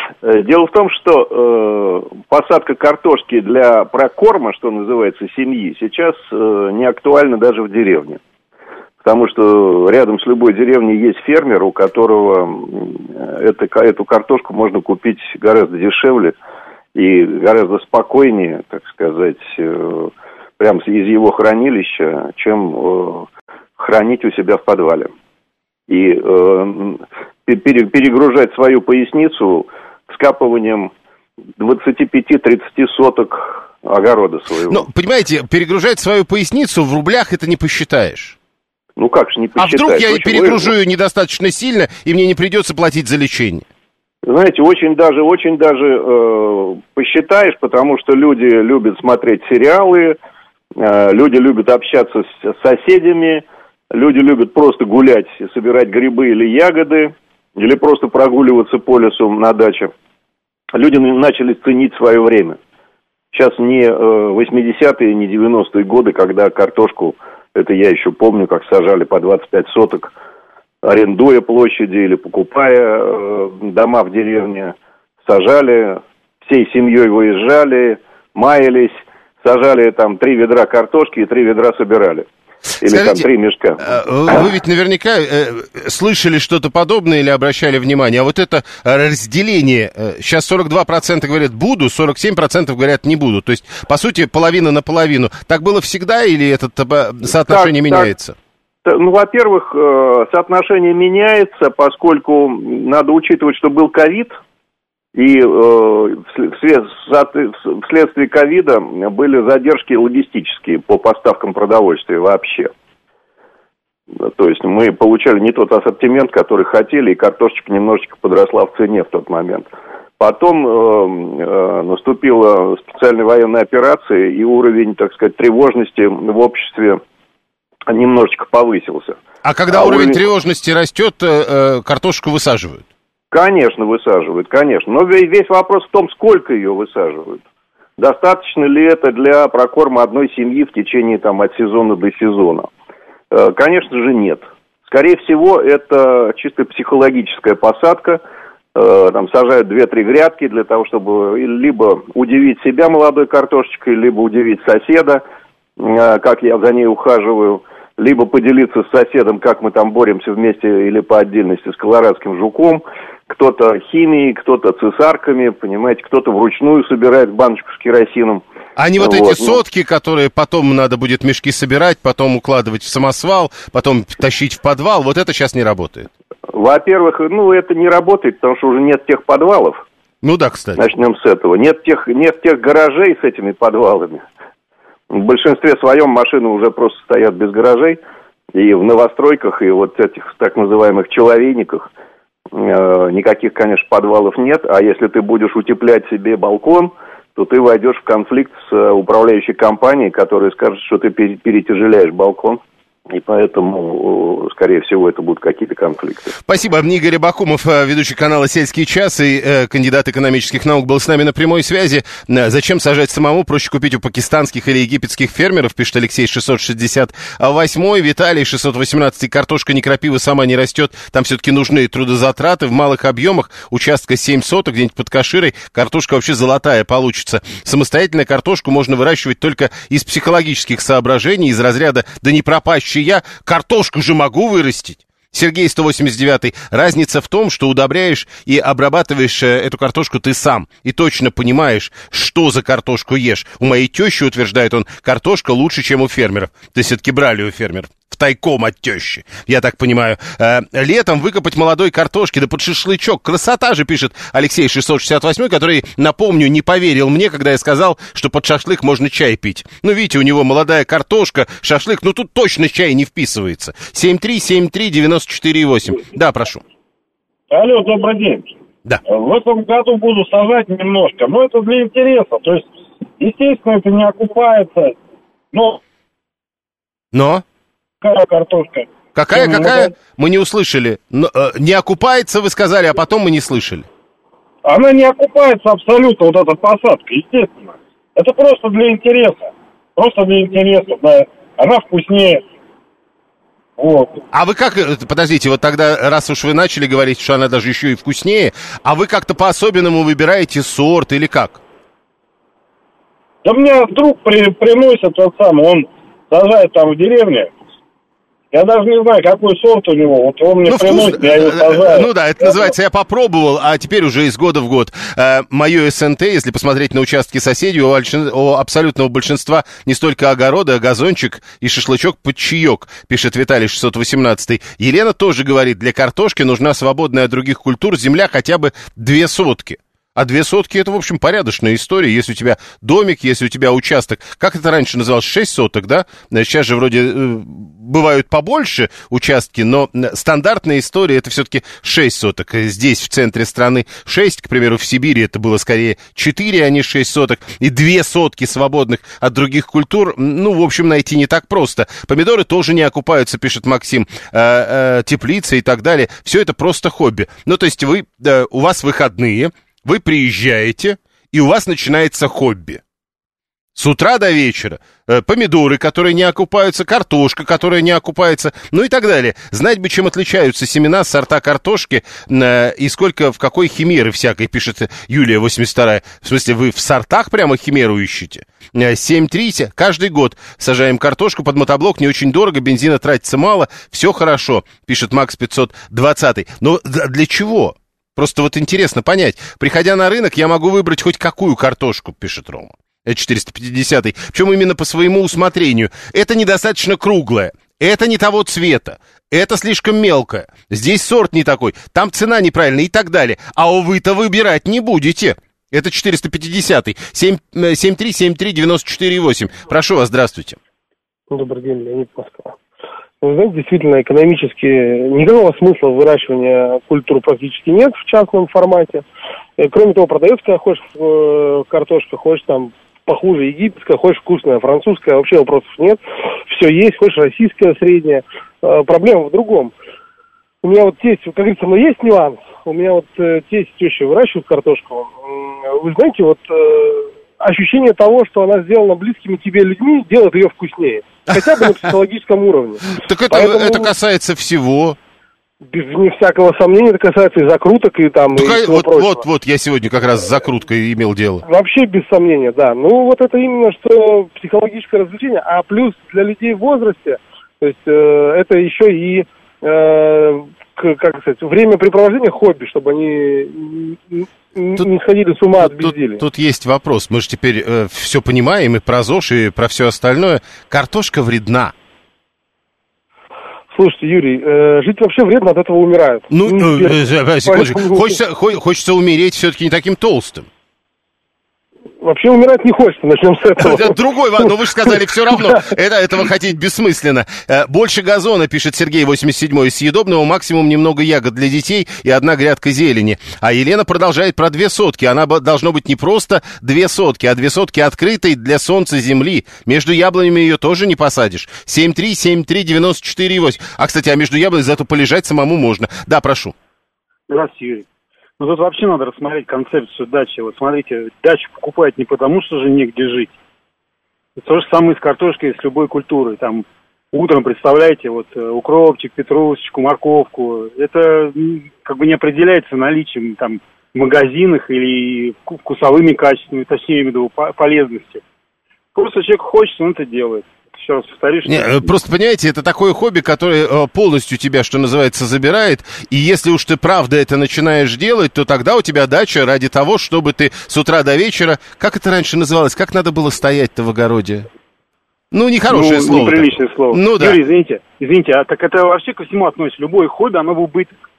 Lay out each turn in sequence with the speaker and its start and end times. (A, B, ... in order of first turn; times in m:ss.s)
0:00.2-0:08.2 A
0:09.0-0:16.4 A
0:16.9-0:25.1 A
0:25.9-0:30.9 A
0:31.6-0:34.8 A
0:34.7-0:38.4 B
0:39.0-0:40.7 A
0:39.6-0:43.6 B
0:44.2-0:50.2 A
0:50.8-0:59.9 A
1:00.7-1:02.6 A
1:03.3-1:10.1 A
1:10.8-1:22.3 A
1:22.8-1:24.4 A
1:22.8-1:23.2 B
1:23.8-1:38.4 B
1:37.3-1:38.1 A
1:38.8-1:44.4 A
1:45.1-1:52.7 A
1:54.2-2:07.0 A
2:07.9-2:10.2 A
2:09.4-2:12.8 B
2:13.3-2:17.4 A
2:18.0-2:22.7 A
2:23.3-2:28.2 A
2:28.7-2:35.2 A
2:35.8-2:48.4 A
2:48.8-2:56.1 B
2:49.0-2:49.6 A
2:56.5-2:59.8 A
3:00.2-3:00.8 B
3:00.8-3:04.2 A
3:05.1-3:08.0 A
3:08.5-3:11.9 A
3:12.5-3:26.4 A
3:26.4-4:26.6 B
4:27.5-4:28.5 C
4:29.0-4:32.7 C
4:33.2-4:35.0 C
4:35.5-4:35.8 C
4:37.1-4:37.4 B
4:38.0-4:39.9 C
4:39.1-4:43.9 B
4:44.6-4:52.4 C
4:53.8-4:54.2 C
4:54.3-5:01.6 B
5:03.4-5:07.5 C
5:08.5-5:12.7 C
5:10.6-6:02.8 B
6:03.7-6:50.6 B
6:51.3-6:52.6 D
6:53.2-6:59.0 D
6:59.6-7:09.7 D
7:10.6-7:23.9 D
7:22.9-7:25.0 B
7:25.6-7:29.2 D
7:28.3-7:31.4 B
7:31.4-7:46.2 D
7:45.6-7:51.7 B
7:53.7-7:58.2 D
7:56.3-8:00.5 B
8:02.0-8:05.6 D
8:03.6-8:26.5 B
8:27.3-8:27.8 E
8:28.4-8:33.3 E
8:34.4-8:48.2 E
8:48.9-8:51.9 E
8:51.4-9:04.5 B
9:05.3-9:07.4 B
9:05.7-9:10.9 E